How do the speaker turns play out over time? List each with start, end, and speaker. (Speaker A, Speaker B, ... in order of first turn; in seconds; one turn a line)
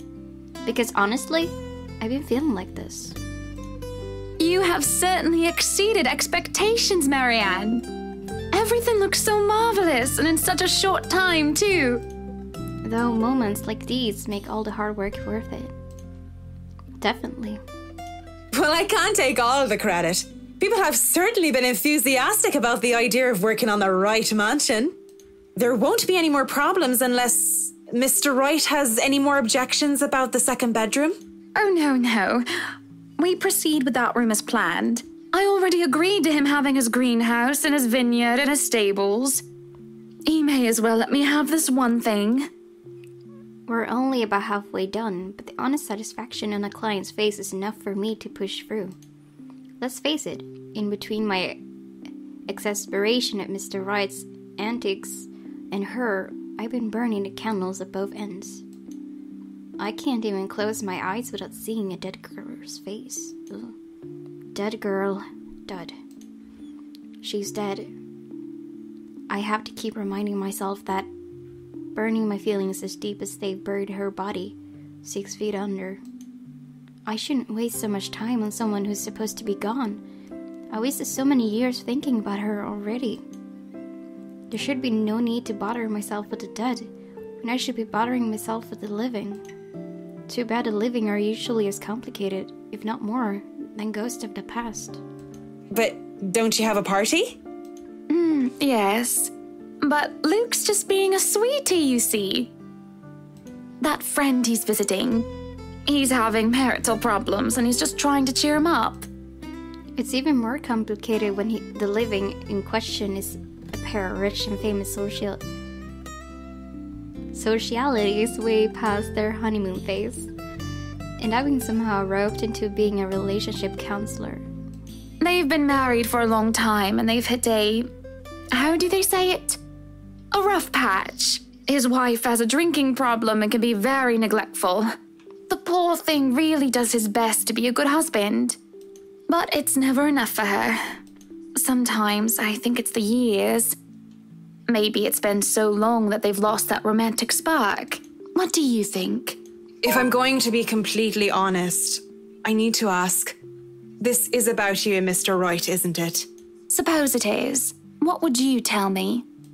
Speaker A: 0.6-3.2
Speaker B: 4.4-7.8
Speaker B: 8.5-12.0
Speaker A: 12.8-15.7
Speaker A: 17.0-17.6
Speaker C: 18.5-24.9
Speaker C: 25.6-31.2
Speaker B: 31.5-39.4
Speaker B: 40.3-42.5
Speaker A: 43.7-49.0
Speaker A: 49.8-51.6
Speaker A: 52.5-58.6
Speaker A: 59.8-63.7
Speaker A: 64.5-66.0
Speaker A: 67.2-67.9
Speaker A: 69.3-71.1
Speaker A: 71.9-76.0
Speaker A: 77.1-80.0
Speaker A: 80.7-83.2
Speaker A: 84.5-86.9
Speaker A: 87.4-89.4
Speaker A: 90.3-95.0
Speaker C: 95.7-97.4
Speaker B: 98.1-102.5
Speaker B: 103.8-105.3
Speaker B: 105.8-109.1
Speaker A: 110.0-115.4
Speaker A: 117.3-120.3
Speaker A: 121.2-124.5
Speaker B: 125.2-127.9
Speaker B: 128.5-129.6
Speaker B: 130.3-134.9
Speaker B: 135.5-138.6
Speaker B: 139.3-141.0
Speaker B: 141.6-143.8
Speaker B: 144.7-149.4
Speaker C: 149.8-153.3
Speaker C: 154.0-156.3
Speaker B: 156.7-159.2